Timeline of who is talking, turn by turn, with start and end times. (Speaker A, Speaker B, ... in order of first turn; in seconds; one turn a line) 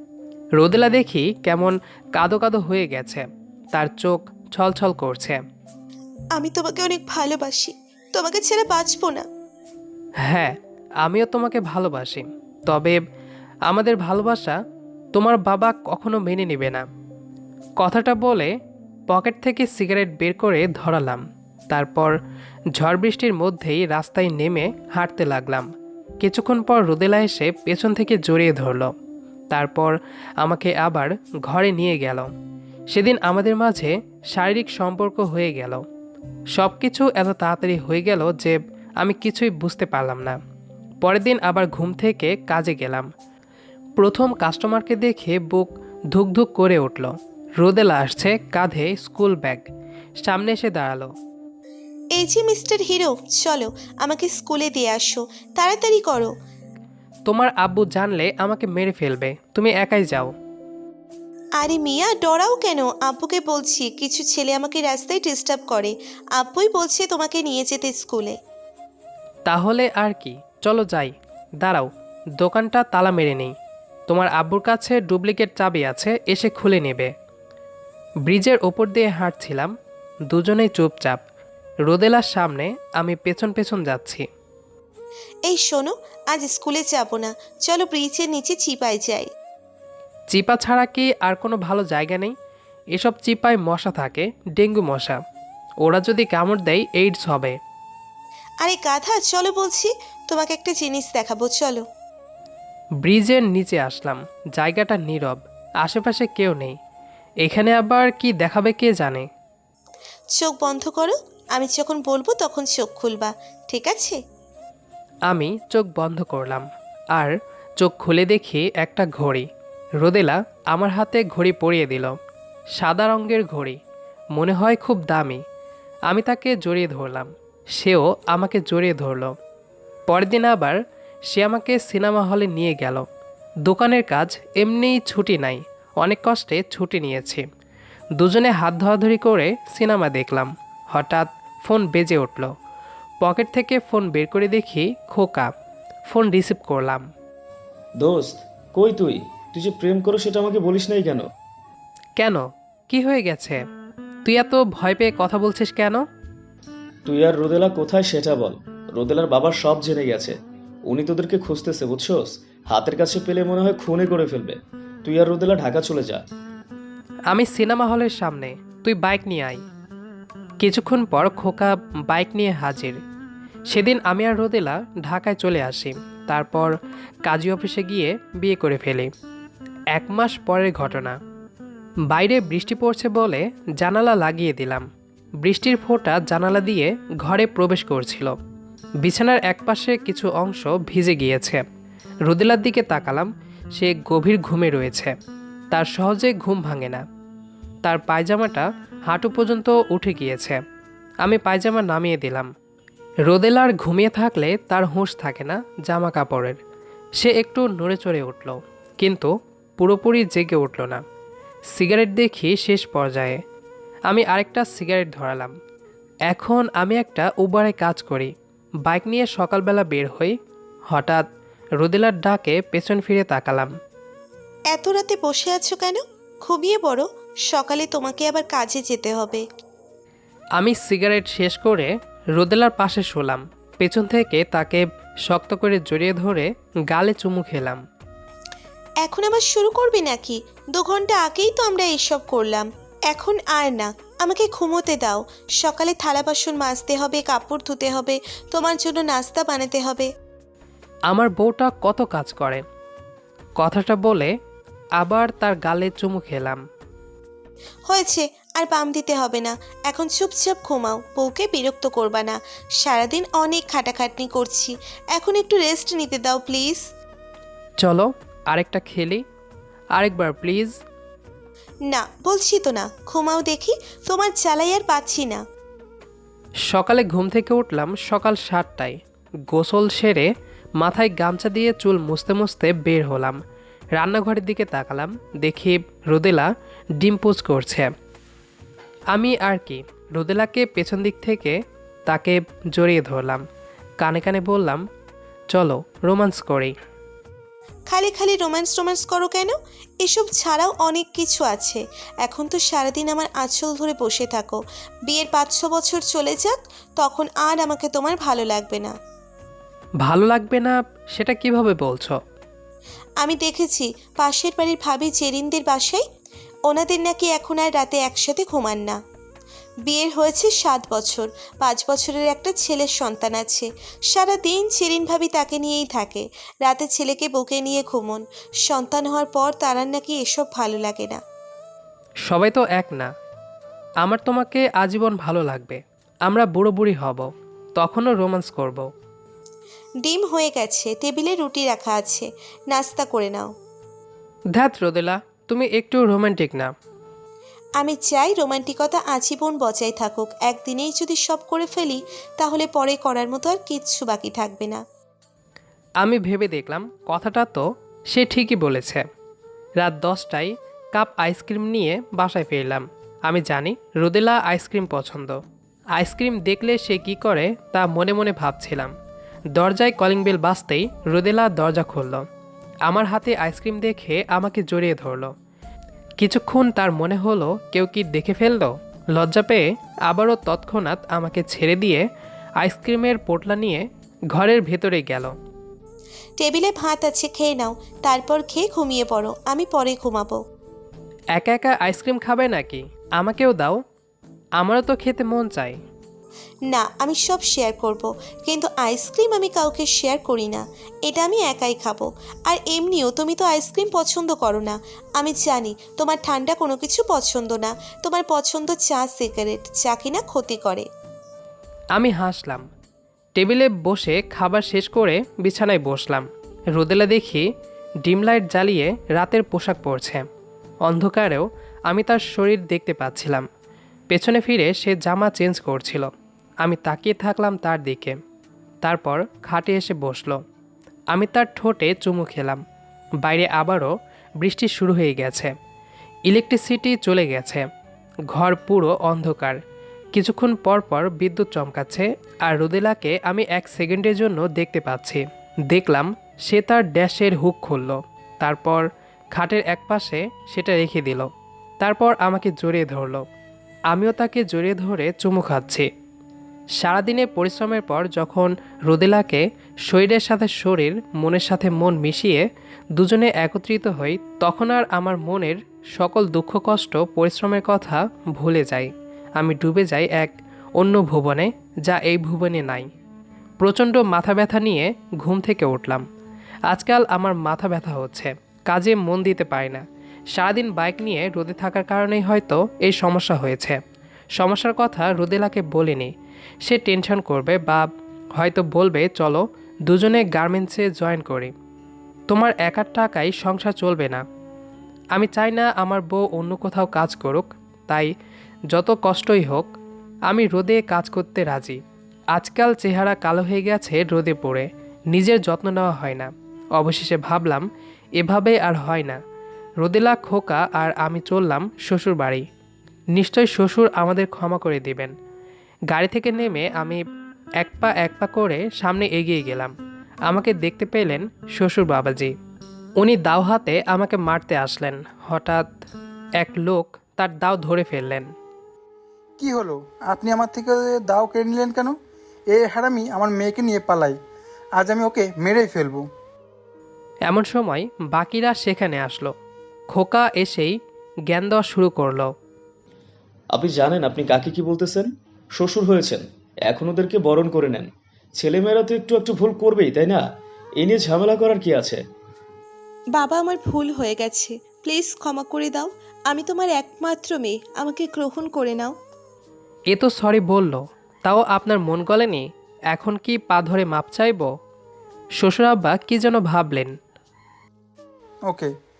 Speaker A: 0.6-5.4
Speaker B: 6.3-9.2
Speaker A: 10.3-13.0
Speaker A: 13.7-14.5
Speaker A: 15.1-16.8
Speaker A: 17.8-18.5
Speaker A: 19.1-22.1
Speaker A: 22.8-25.7
Speaker A: 26.2-28.9
Speaker A: 29.5-32.3
Speaker A: 32.9-35.8
Speaker A: 36.5-40.4
Speaker A: 41.0-43.1
Speaker A: 44.0-51.1
Speaker B: 52.1-56.3
Speaker A: 57.3-60.3
Speaker B: 61.6-68.3
Speaker A: 69.5-71.9
Speaker A: 72.4-73.5
Speaker A: 74.1-77.1
Speaker A: 78.2-79.7
Speaker A: 80.3-81.2
Speaker A: 81.8-84.2
Speaker B: 85.5-89.3
Speaker A: 90.3-92.3
Speaker A: 92.9-95.2
Speaker A: 95.8-97.6
Speaker B: 98.6-101.8
Speaker A: 103.0-106.8
Speaker A: 107.4-109.3
Speaker B: 110.3-114.2
Speaker A: 115.3-119.5
Speaker A: 120.0-122.1
Speaker A: 122.8-123.8
Speaker A: 124.3-125.4
Speaker A: 126.1-129.3
Speaker A: 130.1-130.8
Speaker A: 131.3-133.0
Speaker A: 133.6-137.4
Speaker A: 138.2-142.5
Speaker A: 143.2-145.5
Speaker A: 146.1-147.1
Speaker C: 148.0-151.2
Speaker A: 152.2-153.6
Speaker A: 154.2-156.0
Speaker C: 157.1-160.4
Speaker C: 160.9-166.2
Speaker A: 167.3-169.6
Speaker A: 170.6-173.0
Speaker A: 173.7-176.7
Speaker A: 177.2-179.1
Speaker A: 179.9-181.2
Speaker A: 182.1-184.8
Speaker A: 185.4-188.3
Speaker A: 189.0-191.6
Speaker A: 192.3-195.1
Speaker A: 195.7-197.0
Speaker A: 197.8-200.6
Speaker A: 201.2-202.5
Speaker A: 203.2-206.6
Speaker A: 207.2-211.0
Speaker A: 211.7-213.4
Speaker A: 214.1-215.5
Speaker A: 216.3-218.3
Speaker A: 218.8-220.3
Speaker A: 220.9-221.2
Speaker A: 221.8-223.7
Speaker B: 224.7-229.4
Speaker A: 230.6-237.8
Speaker B: 239.0-250.1
Speaker A: 251.1-252.6
Speaker A: 253.6-254.3
Speaker A: 255.0-256.6
Speaker B: 257.9-266.8
Speaker A: 267.8-269.2
Speaker A: 269.9-270.8
Speaker B: 271.9-275.4
Speaker A: 276.7-279.0
Speaker A: 279.5-280.3
Speaker A: 280.8-283.4
Speaker A: 283.9-287.9
Speaker A: 289.1-293.4
Speaker A: 294.0-294.8
Speaker A: 295.5-296.7
Speaker B: 297.9-308.9
Speaker A: 310.0-312.2
Speaker B: 313.2-316.0
Speaker B: 316.7-319.0
Speaker B: 319.9-331.2
Speaker A: 332.3-333.1
Speaker A: 334.0-338.9
Speaker B: 340.0-343.5
Speaker A: 344.5-346.7
Speaker B: 347.8-354.8
Speaker A: 356.0-359.0
Speaker A: 359.8-365.4
Speaker A: 365.9-368.9
Speaker A: 369.5-372.2
Speaker A: 372.9-375.3
Speaker A: 376.2-382.0
Speaker A: 382.6-385.3
Speaker B: 386.4-390.4
Speaker A: 391.3-393.8
Speaker A: 394.6-395.8
Speaker B: 396.7-410.9
Speaker A: 411.9-412.7
Speaker A: 413.3-417.4
Speaker A: 418.0-420.2
Speaker A: 420.8-423.4
Speaker A: 424.1-426.1
Speaker A: 426.6-428.2
Speaker A: 428.8-430.4
Speaker A: 431.1-432.6
Speaker A: 433.2-435.5
Speaker A: 436.3-437.6
Speaker A: 438.3-439.6
Speaker A: 440.1-451.3
Speaker A: 451.8-453.2
Speaker A: 453.9-455.9
Speaker A: 456.8-472.9
Speaker A: 473.6-476.0
Speaker A: 476.7-483.8
Speaker A: 484.4-491.5
Speaker A: 492.3-494.2
Speaker A: 495.1-498.1
Speaker A: 498.7-499.8
Speaker A: 500.3-501.8
Speaker A: 502.3-507.7
Speaker A: 508.2-509.2
Speaker A: 509.8-512.4
Speaker A: 513.1-515.1
Speaker A: 515.9-517.0
Speaker A: 517.6-519.7
Speaker A: 520.3-522.3
Speaker A: 523.0-525.7
Speaker A: 526.4-528.3
Speaker D: 529.4-531.9
Speaker D: 532.5-534.1
Speaker D: 534.8-536.0
Speaker A: 537.2-539.3
Speaker A: 539.9-540.8
Speaker A: 541.3-542.3
Speaker C: 543.5-550.2
Speaker C: 550.8-552.0
Speaker B: 553.1-558.9
Speaker A: 559.9-564.5
Speaker A: 565.4-566.9